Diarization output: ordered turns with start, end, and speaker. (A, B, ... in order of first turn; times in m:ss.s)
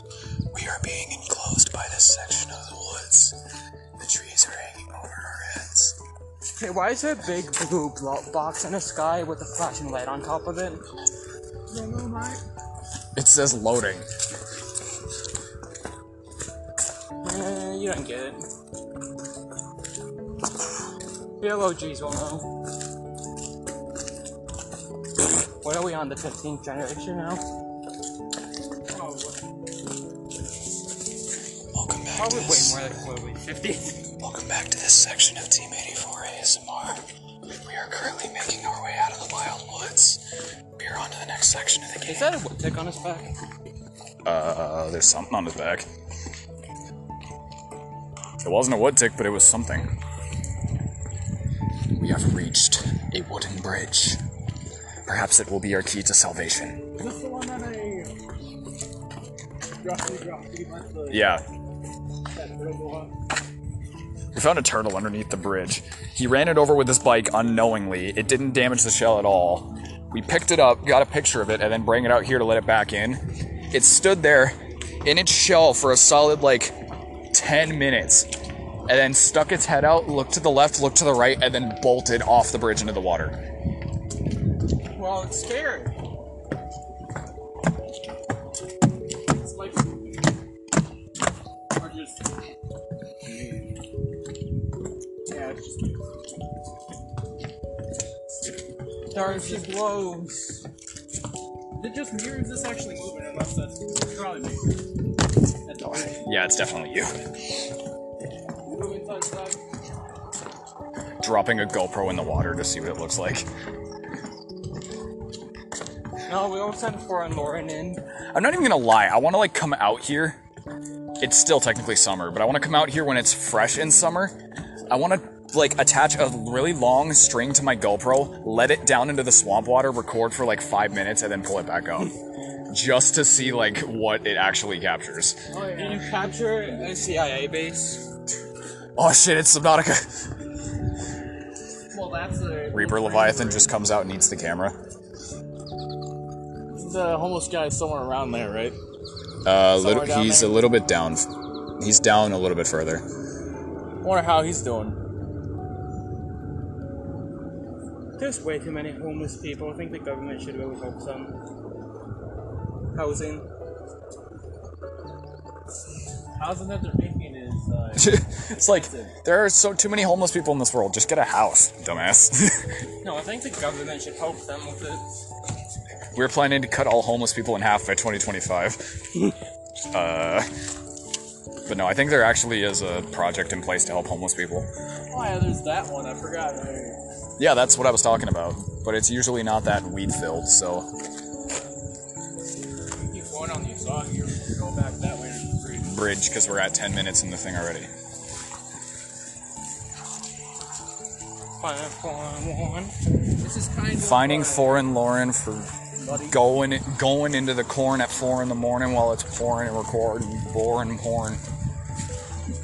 0:00.5-0:03.4 A
0:04.0-0:06.0 A
0:06.6-0:10.8 B
0:11.7-0:12.4 C
0:13.2-0:14.0 A
0:17.2-0:18.4 B
0:21.4-0:22.5 B
0:25.6-0:27.4 B
0:28.9-0:29.4 C
0:31.7-0:32.8 A
0:32.1-0:34.0 B
0:34.2-0:40.2 A
0:40.8-0:42.3 A
0:42.1-0:43.3 B
0:44.2-0:45.9 A
0:48.4-0:49.9 A
0:51.9-0:54.2 A
0:55.1-0:56.8 A
0:57.0-0:58.2 C
0:59.8-1:01.4 C
1:01.1-1:01.4 A
1:02.3-1:03.1 C
1:04.3-1:13.2 A
1:13.7-1:16.7 A
1:17.3-1:18.3 A
1:18.9-1:23.4 A
1:25.0-1:25.9 C
1:29.4-1:30.2 C
1:31.8-1:32.2 C
1:33.2-1:33.7 C
1:35.3-1:35.9 C
1:39.1-1:39.7 C
1:39.1-1:40.6 B
1:41.8-1:44.8 C
1:45.6-1:46.6 C
1:45.8-1:47.3 A
1:48.6-1:49.6 C
1:51.2-1:53.5 A
1:56.3-1:58.0 B
1:58.3-2:00.4 A
2:01.2-2:04.4 A
2:04.9-2:12.1 A
2:12.7-2:15.4 A
2:15.5-2:16.7 C
2:15.7-2:18.0 B
2:19.0-2:20.2 A
2:21.9-2:23.8 C
2:22.7-2:24.8 A
2:26.7-2:28.8 C
2:29.4-2:31.3 A
2:29.7-2:30.6 C
2:31.8-2:33.0 A
2:34.0-2:35.0 C
2:38.2-2:41.4 B
2:42.9-2:43.5 B
2:46.4-2:49.1 C
2:48.0-2:52.8 A
2:53.0-2:55.1 B
2:56.1-2:58.9 A
2:59.9-3:00.5 A
3:01.7-3:04.7 A
3:05.1-3:07.0 C
3:07.4-3:10.9 A
3:13.0-3:15.9 C
3:15.9-3:17.9 A
3:21.6-3:22.9 B
3:23.4-3:24.9 C
3:24.0-3:25.7 A
3:26.0-3:26.4 C
3:26.2-3:31.4 A